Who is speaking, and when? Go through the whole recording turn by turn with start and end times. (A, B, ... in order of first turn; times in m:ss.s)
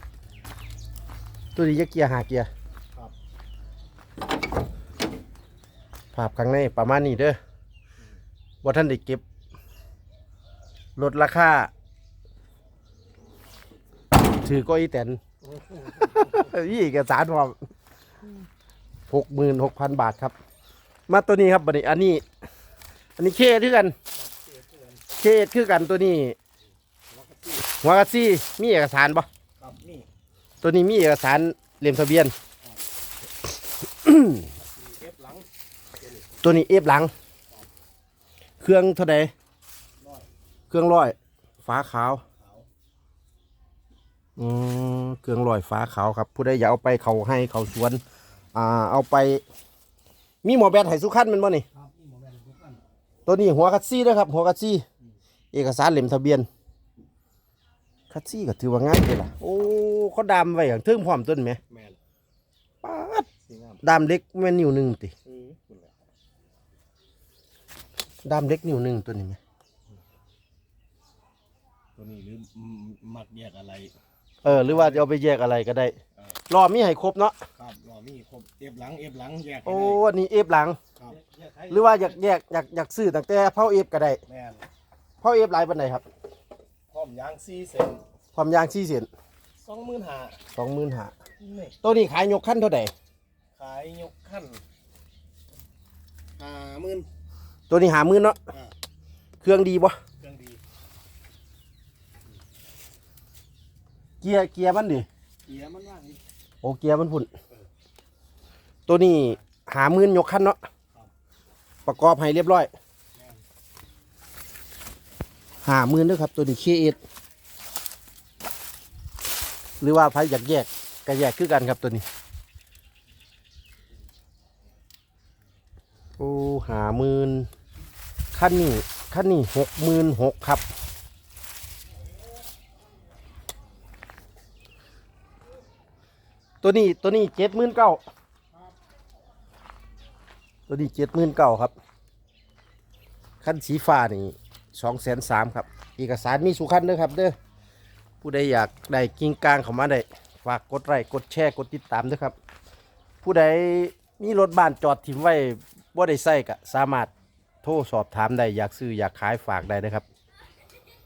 0:01.6-0:02.5 A
0:06.1-0:07.4 A
0:08.6-0:09.2 A
0:11.0-0:11.7 A
0:14.4-0:15.2 A
0:15.5-0:16.5 B
0:16.1-0:17.6 A
0:19.1-0:20.3 A
0:21.1-0:22.2 A
0:23.2-0:24.0 A
0:24.1-0:25.0 B
0:25.2-0:26.4 A
0:27.1-0:27.7 B
0:27.8-0:29.3 A
0:29.6-0:30.1 B
0:30.6-0:32.3 A
0:34.0-0:34.5 A
0:34.5-0:36.3 B
0:36.4-0:37.1 A
0:38.6-0:39.3 A
0:40.0-0:40.3 B
0:40.7-0:42.2 A
0:42.3-0:42.7 B
0:44.4-0:48.0 A
0:48.5-0:49.4 A
0:50.4-0:51.6 A
0:51.7-0:52.8 B
0:53.2-0:54.8 A
0:55.5-0:56.5 A
0:58.1-1:01.6 A
1:01.7-1:02.0 B
1:02.8-1:03.3 A
1:03.4-1:03.8 B
1:03.8-1:05.1 A
1:05.2-1:06.0 B
1:08.2-1:09.4 A
1:12.0-1:15.1 B
1:14.4-1:16.0 A
1:16.5-1:17.4 A
1:17.5-1:20.0 B
1:19.6-1:20.8 A
1:21.0-1:22.2 B
1:21.7-1:24.2 A
1:24.3-1:24.7 B
1:25.2-1:26.0 A
1:26.9-1:28.0 B
1:28.3-1:29.1 A
1:29.6-1:30.4 B
1:30.5-1:31.1 A
1:31.4-1:31.8 B
1:31.8-1:32.9 A
1:33.5-1:34.6 B
1:36.4-1:37.1 B
1:37.7-1:38.4 A
1:39.4-1:40.0 A
1:40.2-1:40.6 B
1:44.2-1:45.1 A
1:45.4-1:46.2 B
1:46.6-1:47.3 A
1:48.9-1:50.6 A
1:51.8-1:52.7 A
1:53.1-1:53.4 B
1:55.6-1:57.0 A
1:59.8-2:02.0 A
2:06.2-2:07.5 A
2:08.3-2:10.6 A
2:16.6-2:18.0 A
2:20.7-2:21.7 A
2:23.4-2:27.3 A
2:28.2-2:32.4 A
2:33.2-2:37.1 A
2:37.6-2:40.0 A